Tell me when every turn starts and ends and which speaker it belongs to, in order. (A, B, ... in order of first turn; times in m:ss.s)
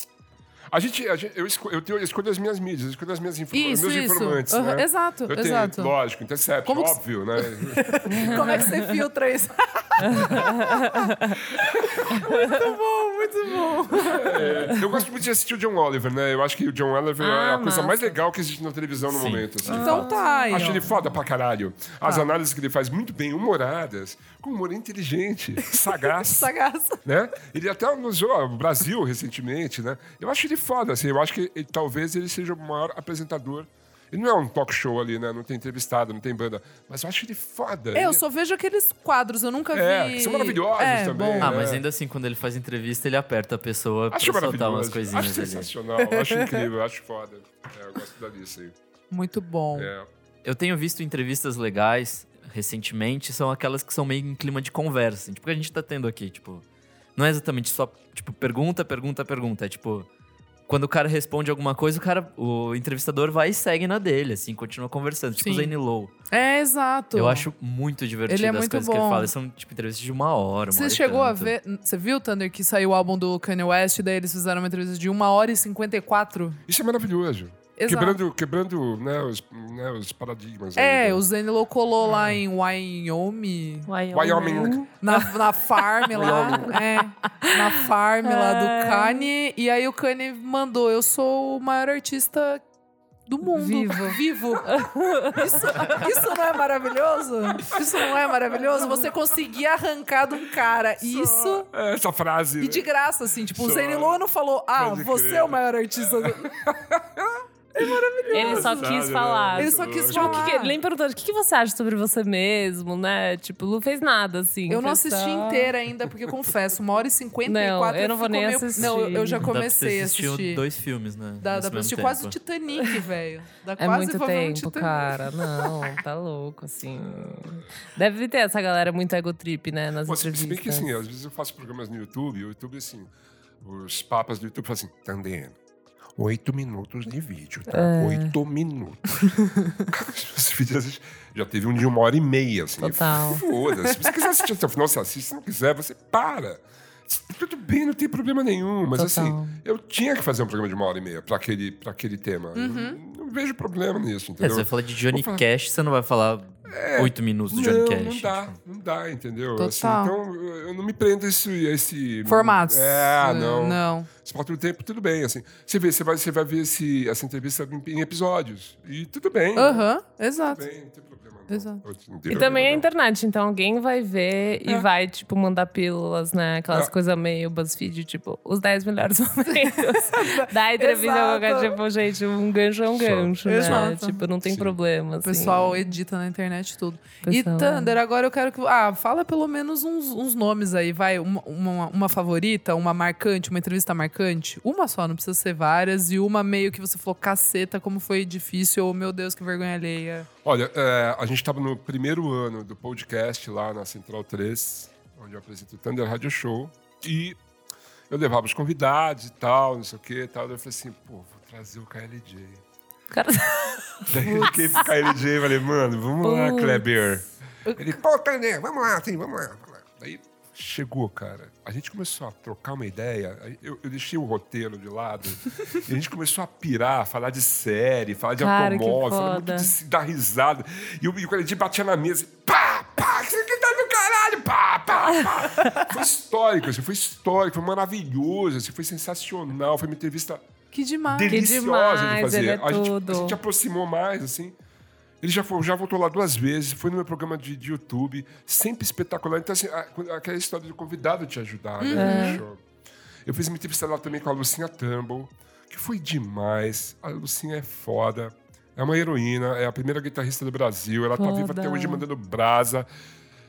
0:00.7-0:08.6 A
0:03.5-0:05.9 B
0:06.6-0:14.7 B
0:08.1-0:08.8 C
0:10.0-0:11.4 C
0:13.9-0:26.5 A
0:14.5-0:14.7 C
0:17.2-0:18.1 C
0:19.1-0:19.8 D
0:19.6-0:20.9 B
0:19.7-0:20.8 C
0:22.0-0:22.3 B
0:25.7-0:27.0 B
0:27.0-0:38.2 A
0:37.9-0:41.6 B
0:39.7-0:41.8 A
0:41.4-0:45.7 D
0:44.1-0:48.8 A
0:46.0-0:46.6 B
0:49.1-0:49.9 B
0:49.7-0:50.1 A
0:50.4-0:56.6 D
0:57.2-1:00.1 D
1:00.7-1:06.1 D
1:05.4-1:05.7 B
1:06.3-1:07.5 B
1:07.1-1:11.5 D
1:08.3-1:09.3 B
1:10.7-1:16.6 B
1:16.7-1:21.2 A
1:17.8-1:18.2 B
1:20.8-1:23.9 B
1:23.9-1:25.2 C
1:24.1-1:24.8 A
1:25.0-1:32.6 B
1:26.1-1:26.8 A
1:26.2-1:26.6 C
1:28.2-1:29.3 C
1:33.3-1:34.7 B
1:33.4-1:36.1 C
1:35.3-1:41.7 B
1:41.0-1:42.9 A
1:42.6-1:46.5 B
1:43.5-1:44.2 A
1:44.8-1:50.5 A
1:47.7-1:48.9 B
1:48.3-1:55.7 C
1:49.5-1:50.8 B
1:54.7-2:00.6 B
1:57.4-1:59.5 C
1:59.4-2:02.4 D
2:01.4-2:05.8 B
2:03.8-2:10.9 C
2:07.0-2:07.5 A
2:10.0-2:13.1 A
2:13.6-2:15.6 A
2:16.2-2:35.4 A
2:17.7-2:18.3 C
2:22.8-2:23.4 C
2:23.7-2:24.2 B
2:29.0-2:29.6 C
2:32.5-2:33.0 B
2:34.4-2:38.6 D
2:36.7-2:49.9 A
2:39.6-2:40.1 B
2:42.2-2:44.1 B
2:49.5-2:50.6 B
2:50.5-2:52.8 A
2:51.5-2:51.8 B
2:52.3-3:05.8 C
2:59.9-3:01.8 B
3:02.9-3:04.8 A
3:03.4-3:04.2 B
3:05.2-3:20.3 B
3:07.2-3:08.0 C
3:20.4-3:27.4 A
3:28.1-3:32.6 A
3:33.1-3:34.8 C
3:34.0-4:00.4 A
3:34.2-3:34.6 B
3:36.2-3:36.8 C
3:37.6-3:38.0 B
3:48.4-3:49.7 C
4:00.7-4:01.4 B
4:01.0-4:04.6 A
4:01.3-4:03.4 C
4:05.2-4:12.6 A
4:11.8-4:12.4 B
4:11.9-4:12.4 C
4:13.2-4:22.8 A
4:21.2-4:22.0 C